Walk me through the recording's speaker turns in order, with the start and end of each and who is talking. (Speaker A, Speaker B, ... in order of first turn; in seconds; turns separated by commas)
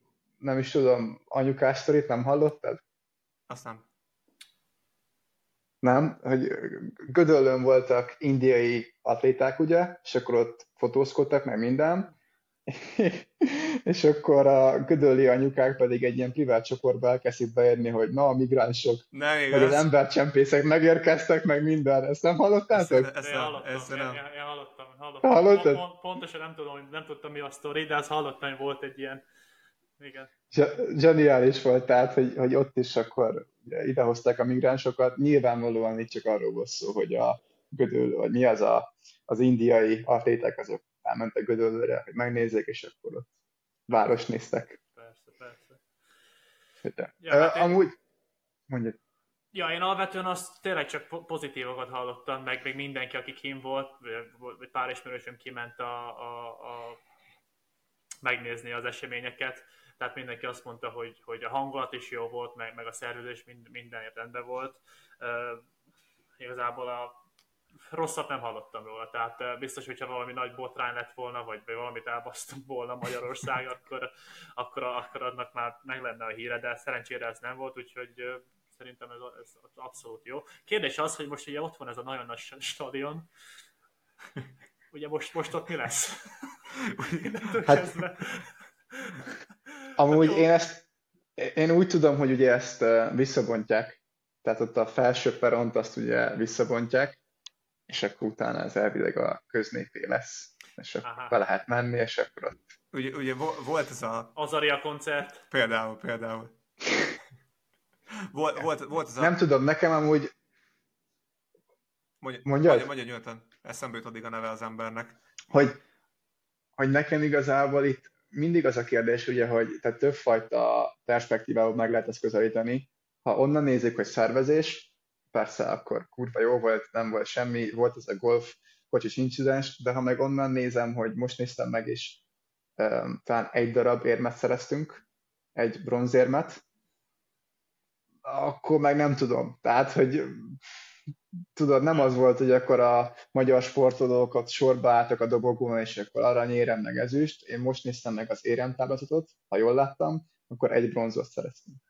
Speaker A: 0.4-2.8, Speaker B: 3.5-3.8, Speaker A: 5.8-12.1, Speaker A: 12.7-23.1, Speaker B: 19.1-19.9, Speaker B: 22.7-24.2, Speaker C: 23.2-29.2, Speaker A: 25.2-25.8, Speaker C: 30.0-30.3, Speaker A: 30.5-43.3, Speaker A: 43.9-44.8, Speaker C: 44.9-45.8, Speaker A: 46.9-48.0, Speaker C: 47.2-47.8, Speaker A: 48.7-49.0, Speaker C: 49.5-57.0, Speaker C: 58.2-65.7, Speaker C: 66.4-67.2, Speaker C: 67.8-83.3, Speaker C: 84.9-86.5, Speaker B: 86.9-87.8, Speaker C: 87.3-89.2, Speaker A: 90.0-90.9, Speaker C: 90.1-90.5, Speaker A: 91.4-97.2, Speaker A: 97.9-102.6, Speaker C: 101.0-101.4, Speaker B: 102.9-104.3, Speaker C: 104.3-105.4, Speaker B: 105.5-106.5, Speaker B: 108.2-109.3, Speaker A: 109.2-110.3, Speaker B: 112.2-115.2, Speaker A: 112.5-112.9, Speaker A: 115.5-115.8, Speaker A: 116.8-132.2, Speaker A: 132.8-135.0, Speaker A: 135.6-136.6, Speaker A: 138.2-140.6, Speaker A: 141.6-151.8